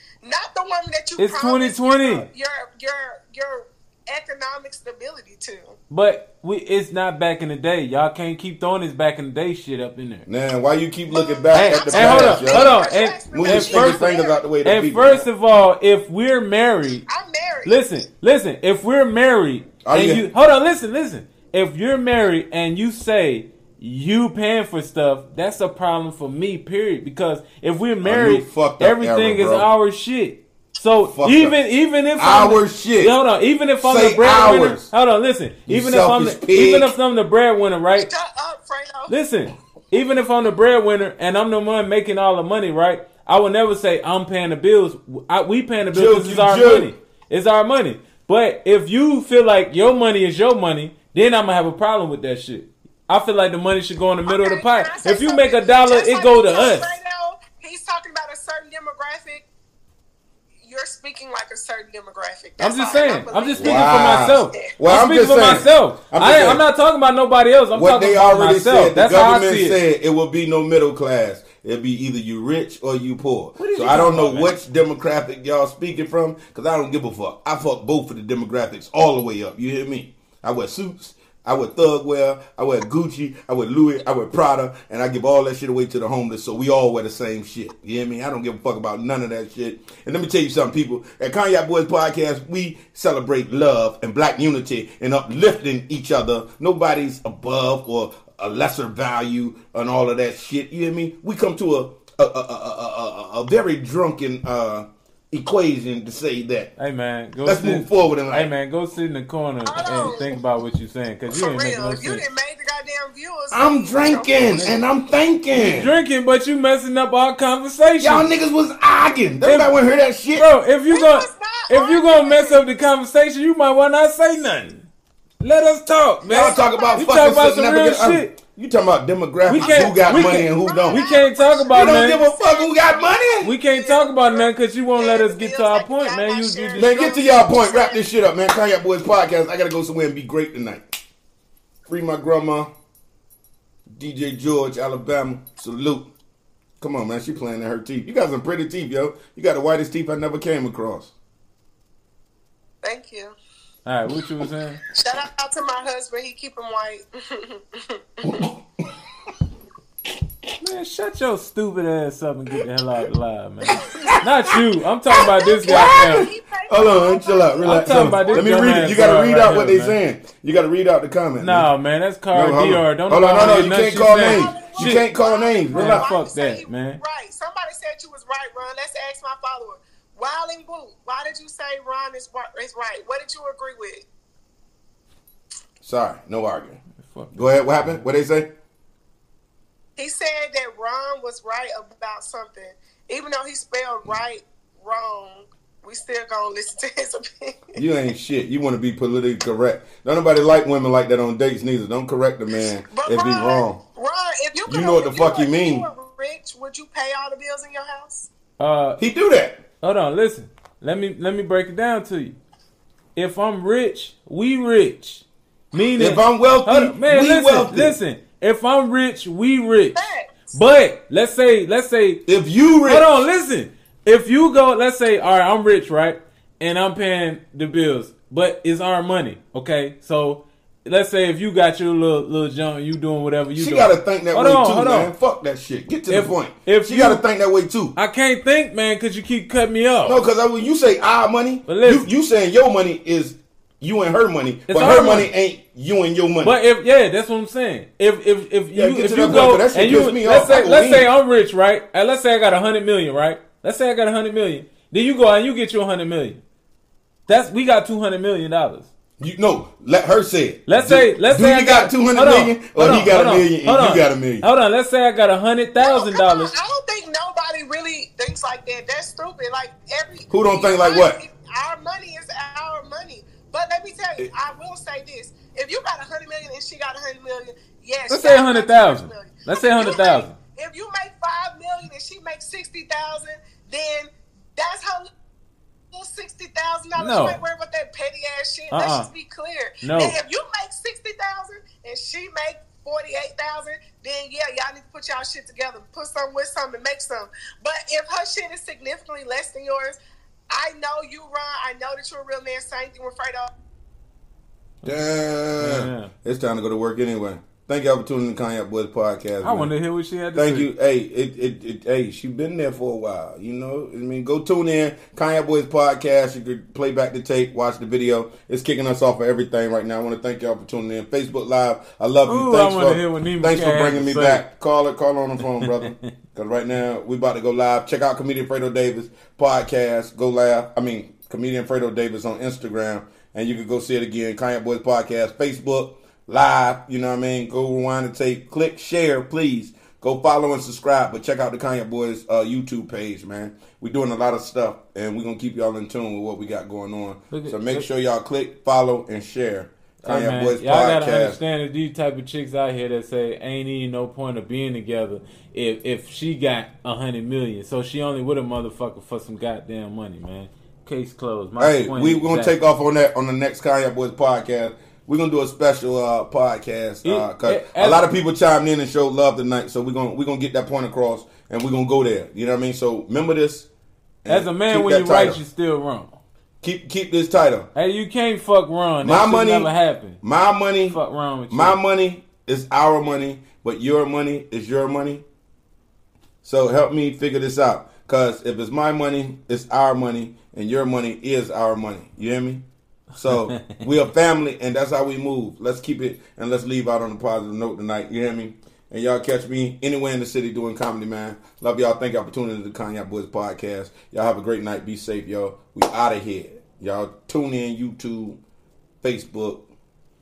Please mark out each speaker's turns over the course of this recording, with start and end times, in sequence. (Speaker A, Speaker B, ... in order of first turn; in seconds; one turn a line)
Speaker A: 0.2-5.8
Speaker B: 1.2-2.2
Speaker B: 5.9-10.3
Speaker C: 10.3-12.8
Speaker A: 11.1-14.4
Speaker B: 11.5-17.1
Speaker C: 13.3-15.3
Speaker A: 17.1-17.8
Speaker B: 17.6-38.1
Speaker C: 19.8-20.3
Speaker C: 28.0-29.7
Speaker C: 31.1-31.6
Speaker C: 32.2-33.2
Speaker C: 33.8-34.9
Speaker C: 35.7-36.9
Speaker A: 38.1-39.1
Speaker B: 39.1-57.0
Speaker C: 45.9-46.9
Speaker A: 54.3-59.5
Speaker A: 60.6-64.7
Speaker B: 62.6-69.8
Speaker C: 63.6-66.6
Speaker C: 67.7-106.7
Speaker B: 73.6-74.5
Speaker B: 106.8-112.2
Speaker C: 107.5-108.5
Speaker A: 109.7-110.4
Speaker A: 111.3-114.7
Speaker C: 113.5-115.9
Speaker B: 114.5-114.8
Speaker B: 115.5-118.3
Speaker C: 118.0-120.5
Speaker B: 119.4-119.8
Speaker B: 120.3-124.9
Speaker A: 120.9-122.6
Speaker B: 125.4-128.4
Speaker A: 126.3-127.2
Speaker C: 126.3-131.1
Speaker B: 129.5-132.2
Speaker A: 129.6-138.0
Speaker C: 131.7-133.5
Speaker B: 133.4-137.2
Speaker C: 136.8-140.9
Speaker C: 141.9-142.7
Speaker C: 143.9-146.1
Speaker C: 146.8-151.1
Speaker A: 152.8-153.3
Speaker B: 153.8-154.8
Speaker A: 155.0-158.3
Speaker C: 158.2-158.6
Speaker B: 160.6-166.3
Speaker C: 163.7-164.6
Speaker A: 165.2-169.0
Speaker C: 165.2-171.7
Speaker B: 167.7-170.0
Speaker B: 171.4-175.1
Speaker C: 172.3-176.1
Speaker A: 173.4-184.1
Speaker B: 175.7-177.0
Speaker C: 185.8-186.8
Speaker B: 187.0-188.0
Speaker C: 187.3-188.5
Speaker A: 190.0-197.8
Speaker C: 197.8-203.8
Speaker A: 202.9-208.3
Speaker C: 204.7-205.9
Speaker B: 208.6-209.0
Speaker C: 209.0-209.6
Speaker B: 209.8-212.4
Speaker B: 213.2-222.2
Speaker C: 216.0-218.0
Speaker A: 219.9-220.5
Speaker C: 222.3-223.2
Speaker B: 222.8-235.1
Speaker C: 233.6-237.9
Speaker B: 236.1-237.2
Speaker B: 237.9-240.2
Speaker C: 240.0-246.6
Speaker B: 241.7-242.1
Speaker B: 244.7-245.3
Speaker B: 246.4-256.4
Speaker C: 248.7-251.1
Speaker B: 257.3-258.9
Speaker C: 259.2-264.5
Speaker B: 260.7-266.5
Speaker A: 265.8-285.1
Speaker C: 270.3-271.2
Speaker B: 278.1-280.4
Speaker A: 285.9-300.0
Speaker B: 287.0-287.4
Speaker B: 288.7-289.1
Speaker B: 289.8-290.1
Speaker A: 300.5-303.5
Speaker C: 304.8-309.7
Speaker B: 305.6-306.1
Speaker B: 309.4-310.7
Speaker C: 310.3-351.4
Speaker B: 322.3-324.4
Speaker B: 325.5-326.1
Speaker B: 347.3-347.9
Speaker B: 350.0-362.6
Speaker C: 361.6-373.7
Speaker B: 367.0-368.0
Speaker C: 374.2-375.4
Speaker B: 374.3-376.2
Speaker C: 376.6-377.7
Speaker B: 377.8-380.2
Speaker C: 379.0-385.2
Speaker B: 380.9-381.8
Speaker C: 386.4-392.6
Speaker C: 393.1-408.4
Speaker C: 409.0-409.6